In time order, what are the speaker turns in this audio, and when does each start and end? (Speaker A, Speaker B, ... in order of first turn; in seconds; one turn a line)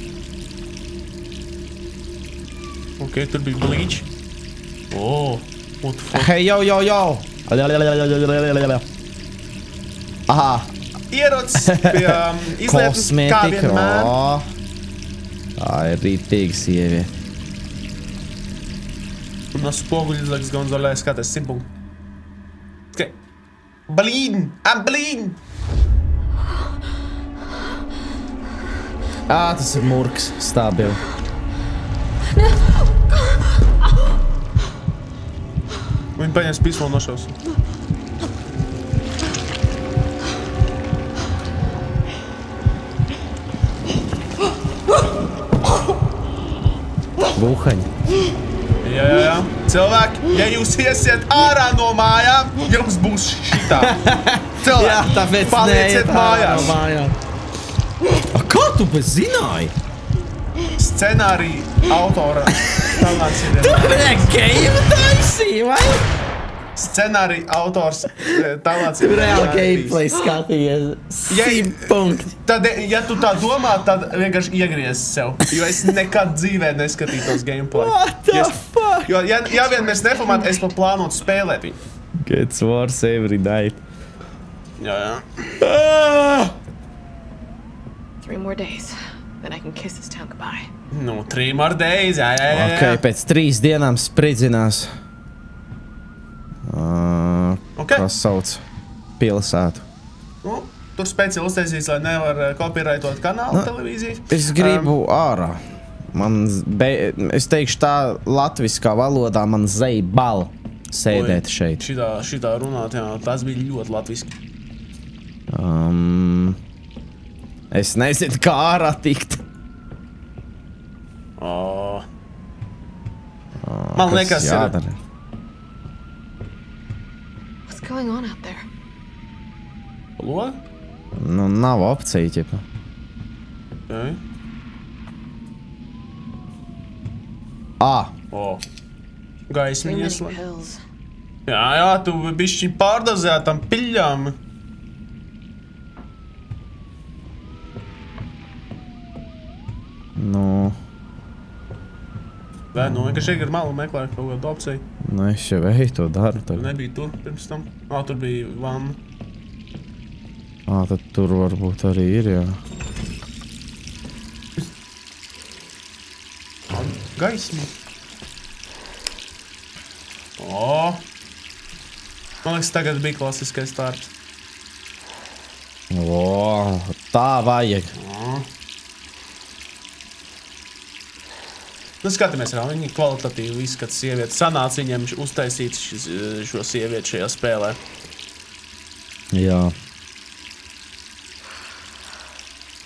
Speaker A: 3.0-4.1
Speaker A: 4.9-6.3
Speaker B: 6.1-8.8
Speaker B: 10.3-10.7
Speaker A: 11.1-14.1
Speaker B: 11.6-14.5
Speaker B: 15.6-17.1
Speaker A: 19.5-21.7
Speaker A: 23.9-25.4
Speaker B: 29.3-31.0
Speaker A: 36.2-37.4
Speaker B: 47.3-47.9
Speaker A: 48.8-54.0
Speaker B: 53.8-57.1
Speaker A: 54.6-56.8
Speaker B: 58.3-59.7
Speaker A: 60.8-64.1
Speaker B: 63.6-66.1
Speaker A: 66.8-70.0
Speaker B: 69.0-72.3
Speaker A: 71.3-71.9
Speaker A: 72.5-81.8
Speaker B: 77.7-79.1
Speaker C: 79.5-80.6
Speaker B: 82.2-83.8
Speaker A: 84.8-85.6
Speaker B: 85.6-86.5
Speaker C: 88.2-90.7
Speaker A: 90.9-93.0
Speaker B: 92.5-94.9
Speaker B: 96.7-98.6
Speaker A: 97.8-98.1
Speaker B: 99.2-99.8
Speaker A: 100.4-105.0
Speaker B: 104.3-105.6
Speaker B: 106.1-111.8
Speaker A: 111.1-114.3
Speaker B: 115.5-116.6
Speaker B: 117.7-119.4
Speaker A: 121.4-122.0
Speaker B: 123.6-125.0
Speaker A: 124.0-124.8
Speaker C: 127.7-128.6
Speaker A: 130.2-130.6
Speaker B: 131.2-132.6
Speaker A: 133.9-134.2
Speaker B: 137.8-138.1
Speaker A: 138.3-138.6
Speaker A: 139.5-140.4
Speaker C: 139.8-140.8
Speaker A: 141.5-144.4
Speaker B: 150.2-150.8
Speaker A: 152.7-154.9
Speaker B: 152.8-153.4
Speaker B: 155.0-156.7
Speaker A: 156.5-159.0
Speaker B: 160.7-162.6
Speaker A: 166.7-167.7
Speaker A: 170.4-171.0
Speaker A: 172.4-174.1
Speaker B: 175.9-177.9
Speaker A: 177.9-178.5
Speaker A: 182.0-187.8
Speaker B: 189.3-189.7